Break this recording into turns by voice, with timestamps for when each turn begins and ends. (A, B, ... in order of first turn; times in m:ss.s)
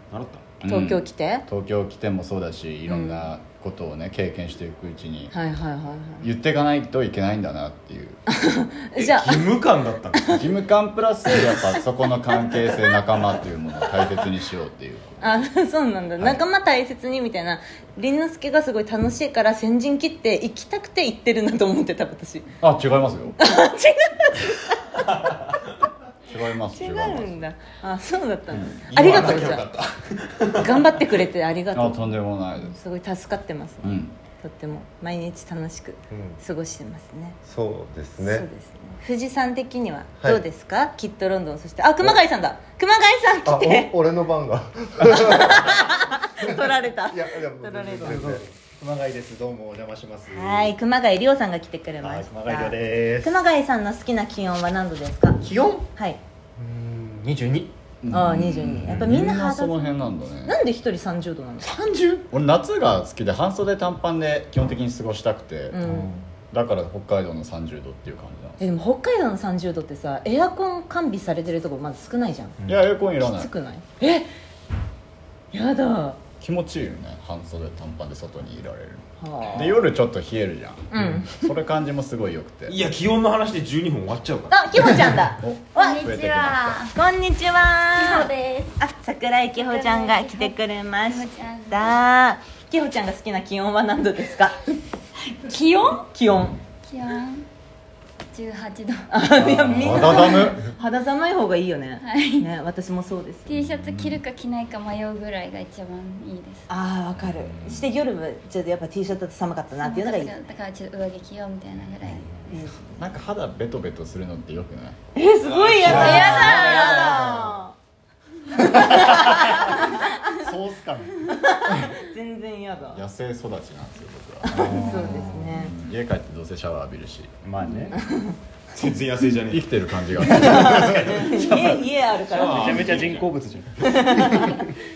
0:00.1-0:00.5 A
0:00.6-0:05.3 B
0:00.6-0:01.4 C
0:02.9-0:03.3 C
0:05.3-0:06.3 C
0:06.2-0:08.2 B
0:08.3-0:09.5 C
0:09.0-0:10.5 A
0:10.3-0:15.4 B
0:15.2-0:22.5 C
0:22.6-0:23.4 B
0:23.4-0:25.3 C
0:26.3-0:27.4 B
0:26.7-0:29.6 C
0:28.5-0:28.8 B
0:28.9-0:30.9 A
0:30.5-0:37.4 C
0:31.7-0:32.7 B
0:33.8-0:34.1 B
0:36.1-0:36.4 D
0:37.4-0:38.4 D
0:38.2-0:43.9 C
0:43.4-0:45.8 D
0:45.1-0:48.2 C
0:46.4-0:48.4 D
0:47.6-0:50.7 E
0:50.3-0:55.4 C
0:52.0-0:53.3 E
0:55.4-0:55.9 E
0:55.9-0:56.2 C
0:56.6-0:57.2 D
0:57.1-0:57.7 E
0:58.0-1:00.6 B
0:58.1-0:59.8 C
1:00.4-1:01.7 C
1:01.6-1:02.3 E
1:02.3-1:05.8 B
1:05.7-1:06.1 C
1:05.8-1:06.1 E
1:06.5-1:08.6 B
1:08.6-1:12.6 C
1:12.7-1:13.5 B
1:13.2-1:14.3 C
1:15.5-1:16.2 C
1:16.4-1:22.8 B
1:19.2-1:19.8 C
1:20.9-1:21.5 C
1:22.7-1:25.1 A
1:24.5-1:26.0 C
1:25.4-1:26.8 B
1:25.7-1:26.9 F
1:26.9-1:34.7 C
1:27.9-1:28.8 F
1:29.5-1:32.0 F
1:35.3-1:36.1 F
1:36.1-1:36.6 C
1:36.8-1:37.4 F
1:38.3-1:39.0 F
1:39.1-1:43.5 C
1:39.4-1:40.6 B
1:39.9-1:40.4 F
1:42.0-1:42.4 F
1:43.5-1:46.7 F
1:43.5-1:44.2 B
1:46.7-1:50.4 C
1:47.5-1:47.8 B
1:49.8-1:52.4 F
1:52.5-1:53.0 C
1:53.0-1:55.0 B
1:55.1-1:57.7 C
1:55.4-1:57.3 A
1:55.8-1:56.5 B
1:56.0-1:57.2 F
1:58.5-2:00.1 C
1:58.7-1:59.7 E
2:00.4-2:01.3 E
2:01.3-2:03.0 C
2:02.9-2:07.3 B
2:04.5-2:05.7 C
2:07.4-2:07.9 E
2:07.9-2:08.4 C
2:08.7-2:09.7 A
2:09.5-2:11.3 B
2:10.2-2:13.0 C
2:10.9-2:14.7 E
2:12.3-2:13.3 A
2:13.8-2:14.7 C